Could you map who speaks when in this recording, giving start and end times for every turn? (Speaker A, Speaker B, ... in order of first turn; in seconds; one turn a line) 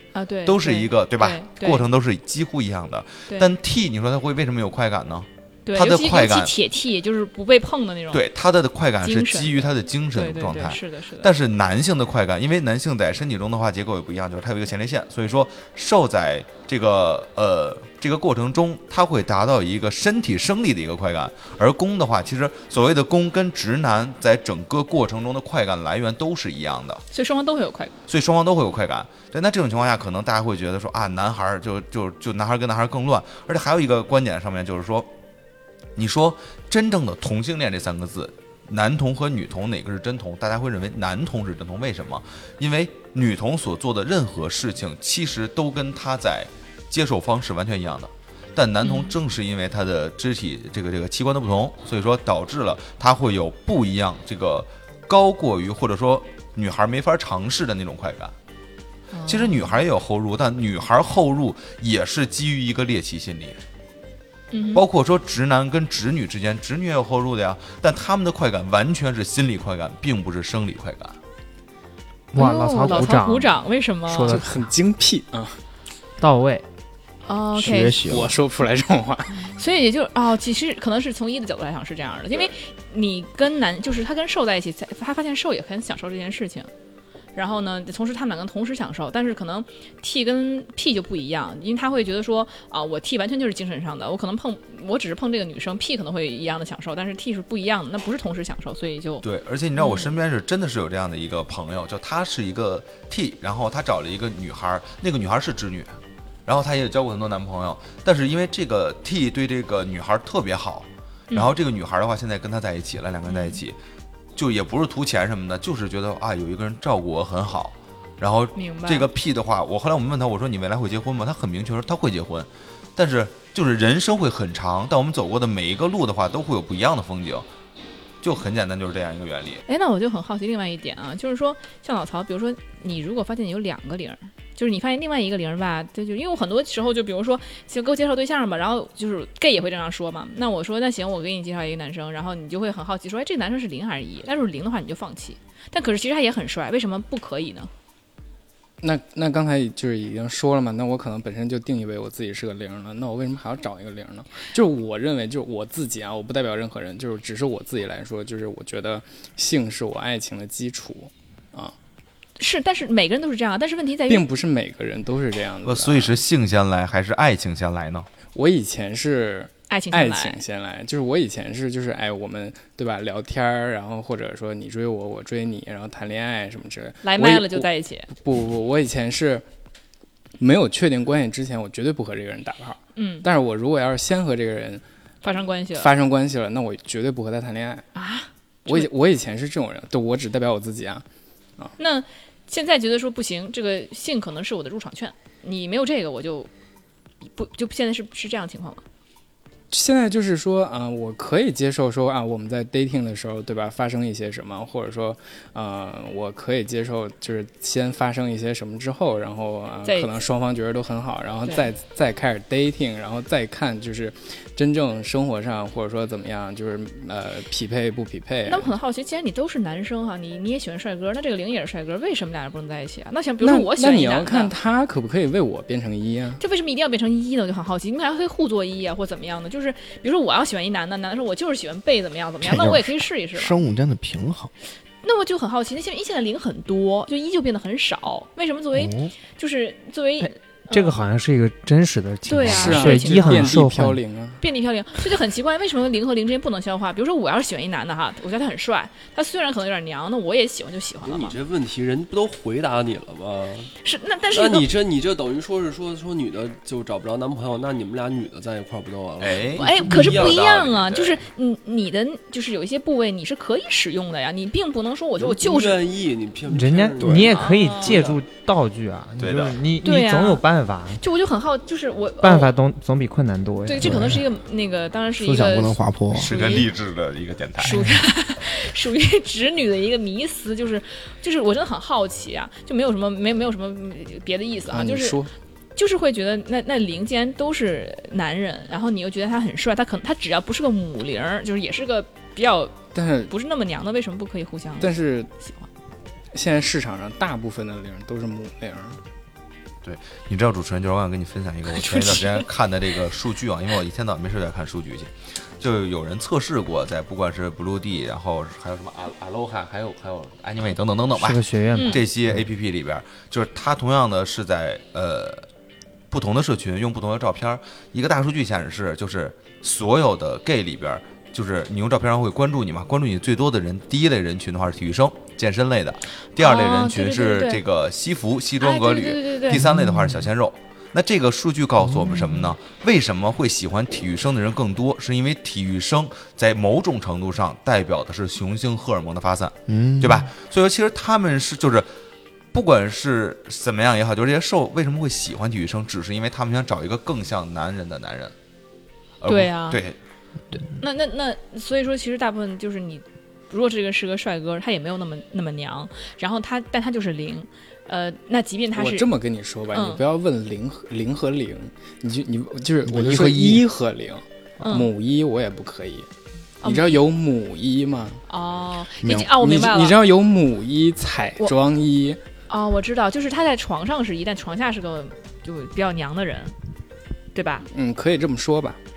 Speaker A: 0.1-1.9
Speaker B: 0.5-6.5
Speaker A: 5.7-8.2
Speaker B: 8.1-27.0
Speaker A: 9.0-11.3
Speaker A: 27.1-28.0
Speaker B: 28.1-35.1
Speaker B: 36.0-58.3
Speaker A: 48.8-49.2
Speaker A: 59.1-59.8
Speaker B: 59.3-63.6
Speaker A: 64.5-64.8
Speaker B: 64.8-71.2
Speaker C: 72.3-73.6
Speaker A: 72.4-74.4
Speaker C: 74.1-74.6
Speaker D: 74.2-75.6
Speaker C: 76.2-76.6
Speaker A: 77.3-78.0
Speaker E: 77.5-78.3
Speaker D: 77.7-79.5
Speaker A: 79.4-86.7
Speaker A: 87.4-99.2
Speaker B: 99.2-106.0
Speaker A: 99.8-100.1
Speaker B: 106.5-113.8
Speaker A: 113.3-113.6
Speaker B: 114.3-127.5
Speaker A: 118.5-119.1
Speaker B: 128.2-129.6
Speaker A: 129.7-147.7
Speaker D: 148.8-161.8
Speaker A: 162.4-164.2
Speaker D: 164.1-166.2
Speaker B: 165.7-168.1
Speaker D: 168.3-179.4
Speaker A: 169.7-170.4
Speaker A: 177.0-178.1
Speaker D: 180.4-184.8
Speaker A: 183.0-183.3
Speaker A: 185.2-185.9
Speaker D: 185.8-187.9
Speaker A: 187.9-188.9
Speaker D: 188.7-191.1
Speaker A: 191.8-196.5
Speaker A: 197.2-198.8
Speaker D: 199.7-218.7
Speaker A: 209.9-210.2
Speaker A: 211.5-211.7
Speaker A: 218.5-224.5
Speaker D: 223.4-226.4
Speaker A: 226.4-233.6
Speaker E: 232.4-234.5
Speaker A: 235.0-241.0
Speaker E: 238.8-239.1
Speaker C: 240.2-244.0
Speaker A: 242.3-243.6
Speaker D: 242.4-244.4
Speaker A: 244.4-251.4
Speaker F: 251.0-253.7
Speaker A: 253.8-254.7
Speaker F: 254.3-260.8
Speaker B: 259.2-261.2
Speaker A: 259.6-265.8
Speaker F: 265.2-268.2
Speaker C: 266.5-271.0
Speaker E: 267.0-267.3
Speaker A: 267.3-268.0
Speaker B: 269.2-269.6
Speaker A: 269.8-270.4
Speaker A: 271.0-272.5
Speaker C: 272.2-274.2
Speaker A: 273.6-276.7
Speaker E: 273.8-274.2
Speaker E: 275.2-276.3
Speaker B: 276.1-277.8
Speaker A: 277.6-285.2
Speaker D: 284.7-285.3
Speaker A: 285.8-292.8
Speaker D: 292.9-293.3
Speaker A: 293.3-294.9
Speaker D: 294.8-295.3
Speaker D: 296.3-299.0
Speaker B: 299.8-315.5
Speaker A: 301.8-302.4
Speaker C: 311.2-312.4
Speaker A: 311.7-312.0
Speaker B: 316.1-341.9
Speaker A: 326.4-327.6
Speaker A: 328.6-329.6
Speaker E: 329.7-330.0
Speaker E: 331.8-332.6
Speaker E: 339.7-340.3
Speaker B: 342.5-348.3
Speaker B: 349.2-350.0
Speaker A: 349.3-349.8
Speaker A: 350.8-359.1
Speaker D: 358.8-366.1
Speaker A: 359.7-360.0
Speaker E: 362.9-363.7
Speaker A: 364.6-364.9
Speaker A: 366.6-367.0
Speaker D: 366.6-368.2
Speaker A: 368.3-370.0
Speaker D: 369.1-372.2
Speaker A: 372.5-376.6
Speaker A: 377.4-377.7
Speaker D: 377.7-378.8